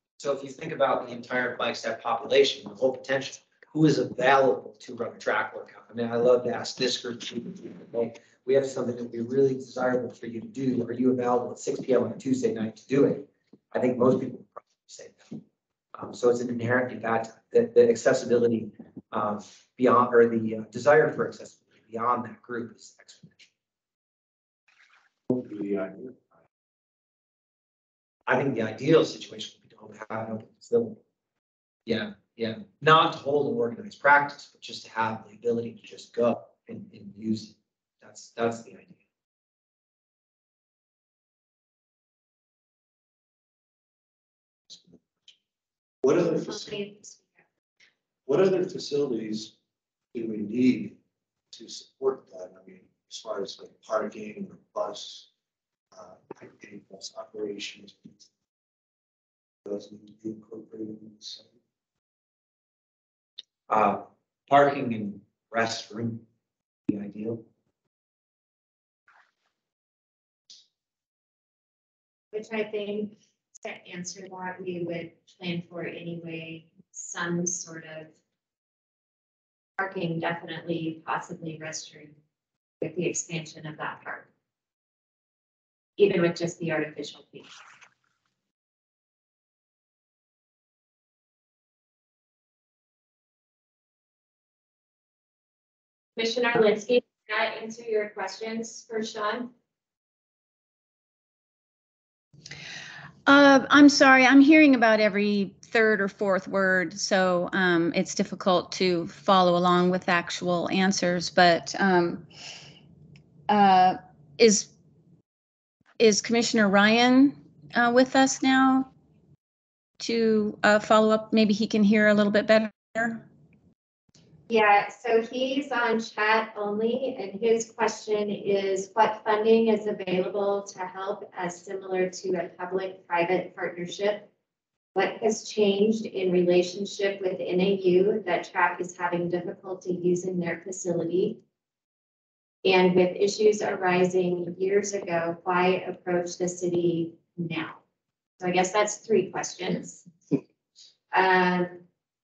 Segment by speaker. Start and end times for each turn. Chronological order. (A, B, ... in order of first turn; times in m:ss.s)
0:00.2-0:15.4 A
0:16.0-0:23.5 A
0:25.3-0:26.2 B
0:28.3-0:31.0 A
0:31.9-0:39.0 A
0:44.7-0:45.4 B
0:46.0-0:46.9 B
0:46.5-0:47.3 C
0:48.3-0:49.5 B
0:50.1-0:51.0 B
0:51.5-0:55.3 B
0:55.9-0:58.3 B
0:59.6-1:01.5 B
1:03.7-1:06.2 A
1:06.9-1:07.4 A
1:12.3-1:18.1 C
1:19.8-1:22.2 C
1:22.8-1:24.3 C
1:26.0-1:27.5 C
1:36.2-1:39.5 C
1:43.3-1:52.2 D
1:53.5-1:54.7 D
1:56.0-1:58.9 D
2:00.0-2:03.2 D
2:04.5-2:14.3 C
2:15.0-2:21.4 C
2:22.6-2:27.8 C
2:28.4-2:30.1 C
2:31.1-2:31.8 C